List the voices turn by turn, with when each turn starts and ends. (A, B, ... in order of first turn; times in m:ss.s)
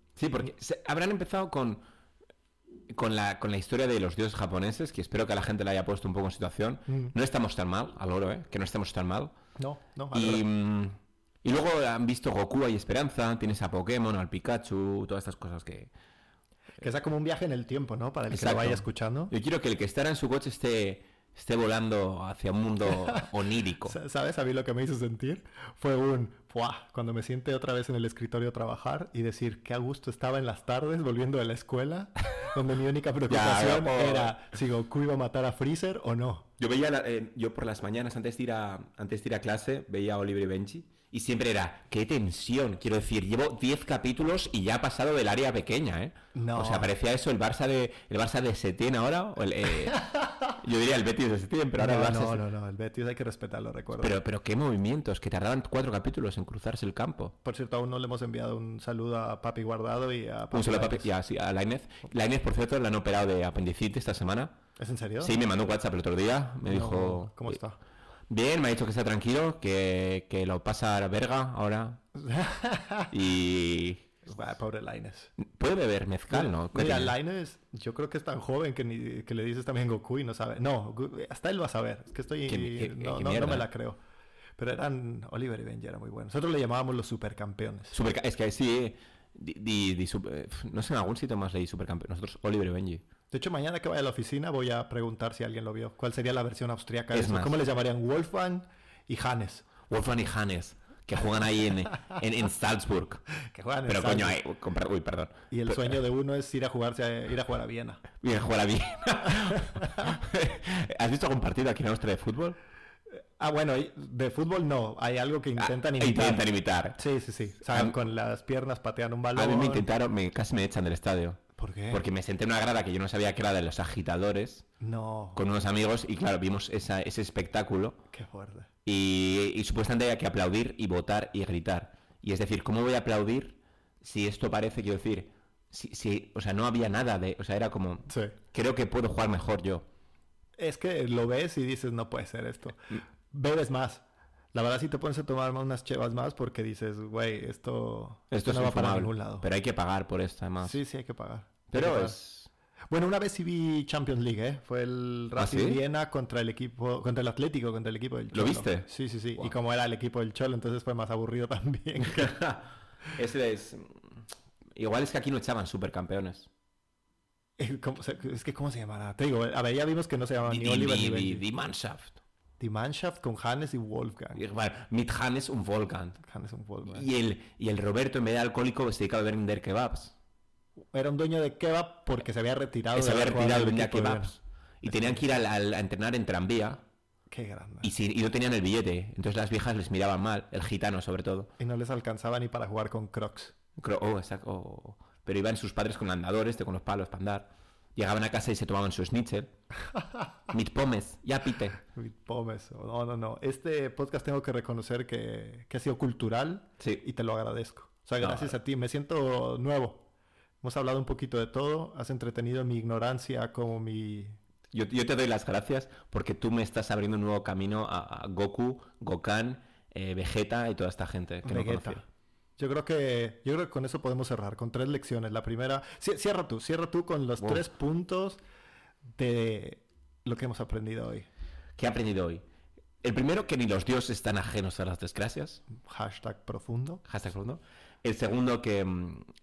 0:00.2-0:01.8 A
0:02.9-0:09.3 A
0:06.9-0:07.1 B
0:09.6-0:10.4 B
0:10.1-0:15.9 A
0:16.8-0:19.3 B
0:18.3-0:24.0 A
0:23.0-0:23.3 B
0:23.8-0:36.5 B
0:33.3-0:34.3 A
0:36.6-0:52.4 A
0:46.3-0:46.9 B
0:51.7-0:54.2 B
0:54.0-0:57.3 A
0:57.4-1:01.1 B
1:00.5-1:04.6 A
1:04.8-1:05.4 B
1:05.2-1:07.6 A
1:06.6-1:07.8 B
1:08.3-1:12.0 A
1:12.2-1:13.1 B
1:13.1-1:14.2 A
1:14.2-1:15.3 B
1:15.4-1:17.2 A
1:16.3-1:24.0 B
1:22.4-1:23.7 A
1:24.6-1:28.0 B
1:27.9-1:33.0 A
1:33.3-1:39.7 B
1:37.1-1:37.5 A
1:39.9-1:43.2 A
1:43.5-1:44.4 B
1:43.9-1:46.0 A
1:45.5-1:48.0 B
1:48.2-1:52.6 A
1:53.4-1:56.4 B
1:55.6-1:57.0 A
1:57.0-1:59.9 B
1:57.6-1:57.9 A
1:59.3-2:04.6 A
2:01.6-2:02.0 B
2:04.8-2:05.4 B
2:05.3-2:08.0 A
2:08.1-2:08.7 B
2:08.8-2:19.8 A
2:18.1-2:18.4 B
2:20.6-2:29.5 B
2:28.3-2:30.8 A
2:30.6-2:32.2 B
2:31.7-2:32.5 A
2:32.9-2:42.4 B
2:35.4-2:35.8 A
2:38.3-2:38.8 A
2:42.1-2:43.8 A
2:44.8-2:46.5 A
2:47.6-2:51.4 B
2:50.5-2:52.2 A
2:52.6-2:54.4 B
2:54.3-2:56.2 A
2:56.2-2:57.1 B
2:56.8-3:00.2 A
3:00.9-3:05.2 B
3:02.9-3:06.8 A
3:07.3-3:07.9 B
3:07.8-3:11.5 A
3:11.6-3:13.5 B
3:13.8-3:19.5 A
3:20.5-3:21.8 A
3:21.9-3:30.1 B
3:28.2-3:28.6 A
3:30.6-3:34.4 B
3:34.7-3:42.0 A
3:41.4-3:42.0 B
3:42.6-3:48.4 B
3:49.2-3:51.3 B
3:51.8-3:52.4 A
3:53.0-3:55.6 A
3:55.8-3:57.0 B
3:57.0-3:59.2 A